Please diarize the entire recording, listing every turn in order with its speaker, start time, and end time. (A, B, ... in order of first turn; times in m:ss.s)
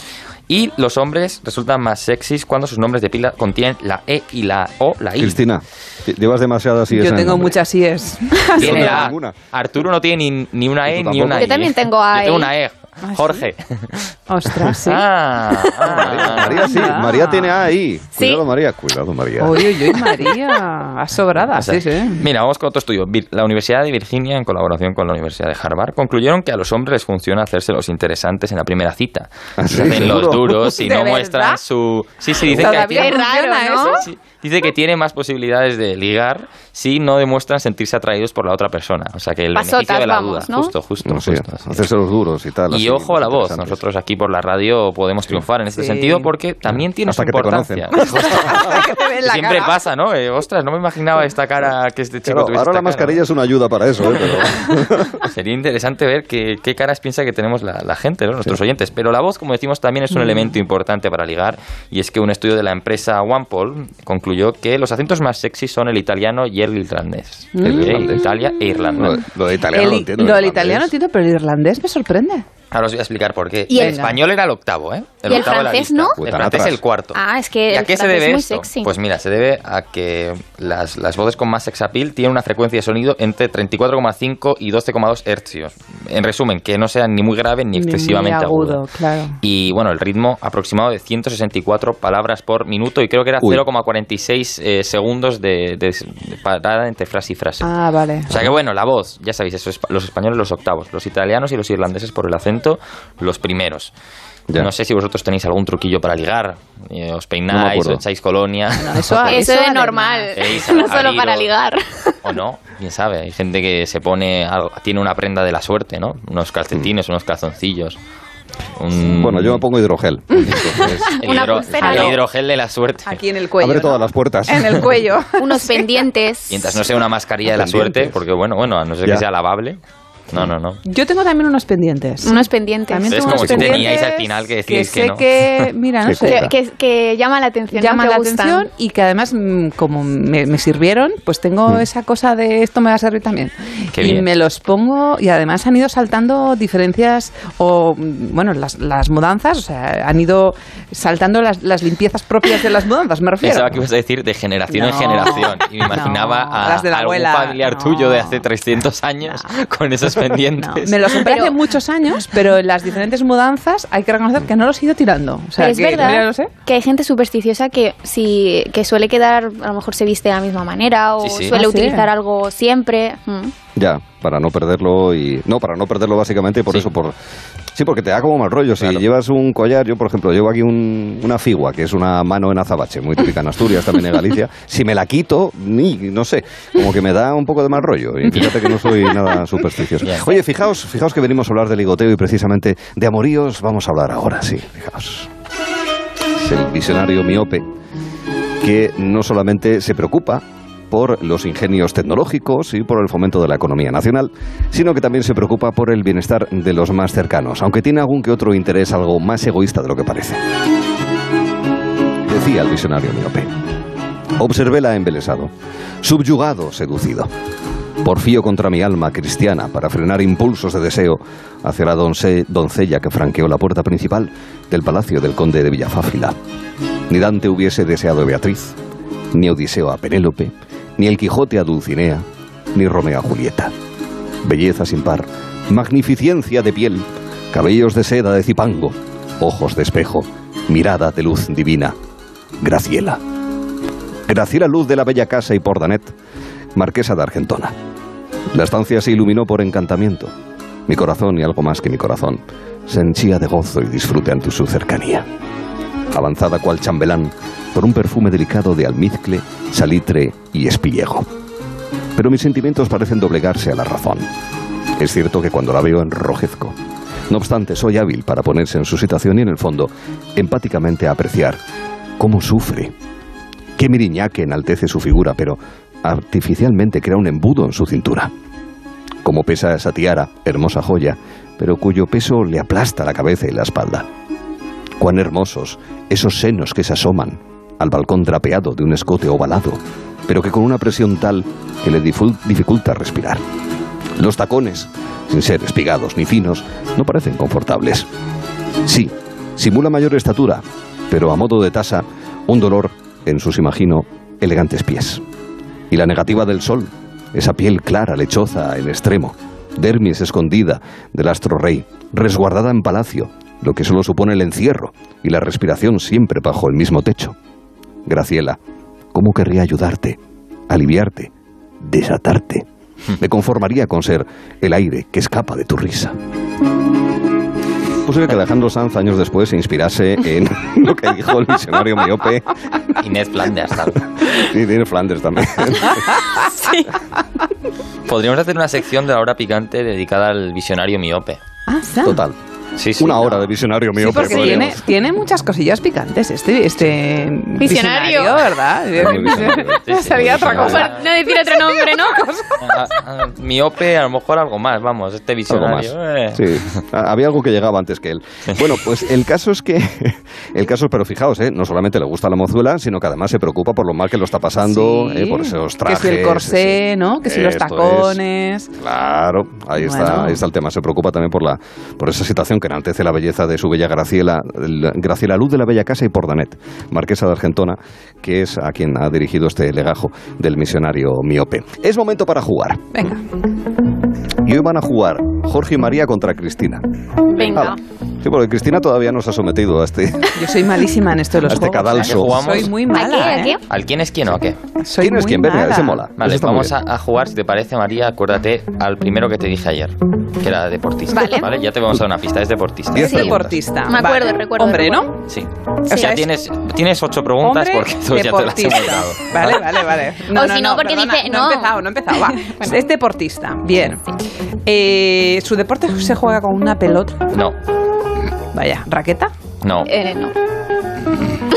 0:00.5-0:05.4 A
0:05.2-0:07.6 B
0:06.9-0:09.1 C
0:08.6-0:09.4 B
0:08.6-0:14.1 A
0:10.9-0:11.5 B
0:11.3-0:12.5 D
0:13.0-0:13.4 C
0:14.3-0:15.0 C
0:14.8-0:16.7 A
0:15.8-0:19.8 B
0:15.9-0:17.6 C
0:18.2-0:18.4 D
0:19.4-0:22.2 C
0:21.5-0:33.2 A
0:29.6-0:30.7 B
0:30.8-0:31.2 C
0:30.9-0:31.6 D
0:32.4-0:34.0 C
0:32.6-0:34.1 D
0:33.8-0:41.9 A
0:39.5-0:40.7 D
0:41.0-0:43.8 B
0:42.7-0:53.2 A
0:45.8-0:46.3 C
0:47.0-0:48.6 B
0:48.0-0:49.8 C
0:52.2-0:55.2 B
0:54.1-1:09.2 A
1:07.6-1:08.1 C
1:07.6-1:08.2 B
1:09.0-1:10.9 B
1:09.7-1:12.4 C
1:12.7-1:17.2 A
1:13.7-1:14.0 D
1:13.7-1:14.2 C
1:15.3-1:16.2 D
1:16.2-1:16.8 B
1:17.1-1:18.9 D
1:17.7-1:28.8 A
1:27.7-1:29.4 C
1:29.4-1:37.7 A
1:37.6-1:38.3 C
1:38.3-1:43.9 A
1:44.6-1:49.4 A
1:47.5-1:48.0 B
1:48.8-1:50.3 C
1:49.2-1:52.2 D
1:50.3-1:51.5 A
1:52.2-1:58.0 A
1:58.8-1:59.6 A
1:59.0-2:02.0 B
2:01.0-2:02.2 D
2:01.2-2:03.2 A
2:03.1-2:05.9 C
2:03.6-2:05.0 B
2:05.4-2:06.8 D
2:06.5-2:10.8 A
2:07.5-2:08.2 B
2:10.8-2:16.5 C
2:12.2-2:13.4 D
2:13.1-2:15.7 A
2:13.4-2:13.8 B
2:16.0-2:16.5 B
2:16.2-2:18.7 D
2:17.7-2:33.8 C
2:24.0-2:24.3 A
2:33.4-2:41.4 A
2:34.7-2:38.4 C
2:40.6-2:46.5 C
2:41.2-2:41.5 D
2:45.6-2:53.5 D
2:51.2-2:51.5 A
2:51.5-2:52.1 C
2:53.8-2:57.2 B
2:57.8-3:15.3 B
3:10.0-3:10.4 A
3:16.4-3:17.7 B
3:18.6-3:30.4 B
3:32.3-3:33.5 B
3:34.4-3:37.3 B
3:38.0-3:46.4 B
3:47.1-3:48.8 B
3:49.3-3:53.7 B
3:54.4-4:02.0 B
4:02.6-4:03.2 B
4:04.3-4:06.1 B
4:06.8-4:07.8 B
4:08.5-4:10.3 B
4:10.9-4:15.3 B
4:16.1-4:21.3 B
4:22.2-4:24.3 B
4:25.0-4:26.8 B
4:27.3-4:31.6 B
4:32.2-4:32.9 B
4:33.8-4:38.3 B
4:39.2-4:44.1 B
4:45.0-4:53.4 B
4:54.2-4:58.1 B
4:58.8-5:05.2 B
5:05.9-5:17.4 B
5:18.1-5:18.6 B
5:19.1-5:22.7 B
5:23.2-5:26.2 B
5:28.0-5:32.5 B
5:33.0-5:34.1 A
5:34.2-5:36.1 B
5:36.5-5:36.9 D
5:38.1-5:41.4 A
5:41.7-5:42.2 C
5:42.0-5:42.4 B
5:42.8-5:43.5 A
5:43.0-5:44.8 B
5:44.0-5:49.8 C
5:44.2-5:44.6 A
5:47.6-5:48.5 D
5:48.9-5:50.9 B
5:49.6-5:51.1 A
5:49.9-5:52.3 D
5:50.8-5:52.6 C
5:52.6-5:56.8 A
5:55.5-6:08.2 B
6:04.7-6:08.7 C
6:08.8-6:22.9 B
6:09.8-6:10.4 C
6:22.9-6:23.2 C
6:24.4-6:26.9 B
6:27.3-6:27.8 D
6:27.4-6:30.4 B
6:30.4-6:33.6 C
6:31.4-6:32.4 B
6:31.9-6:32.9 A
6:32.9-6:33.6 D
6:33.7-6:34.6 A
6:34.8-6:36.1 C
6:35.0-6:36.7 B
6:36.2-6:43.3 A
6:41.1-6:41.5 D
6:42.9-6:43.6 B
6:43.0-6:45.1 D
6:43.0-6:45.2 C
6:45.3-6:49.7 A
6:45.9-6:46.3 C
6:45.9-6:46.2 D
6:47.4-6:54.0 C
6:50.3-6:52.8 D
6:54.6-6:57.3 C
6:57.3-6:57.6 A
6:58.5-6:59.3 C
6:59.6-6:59.9 A
6:59.9-7:00.4 D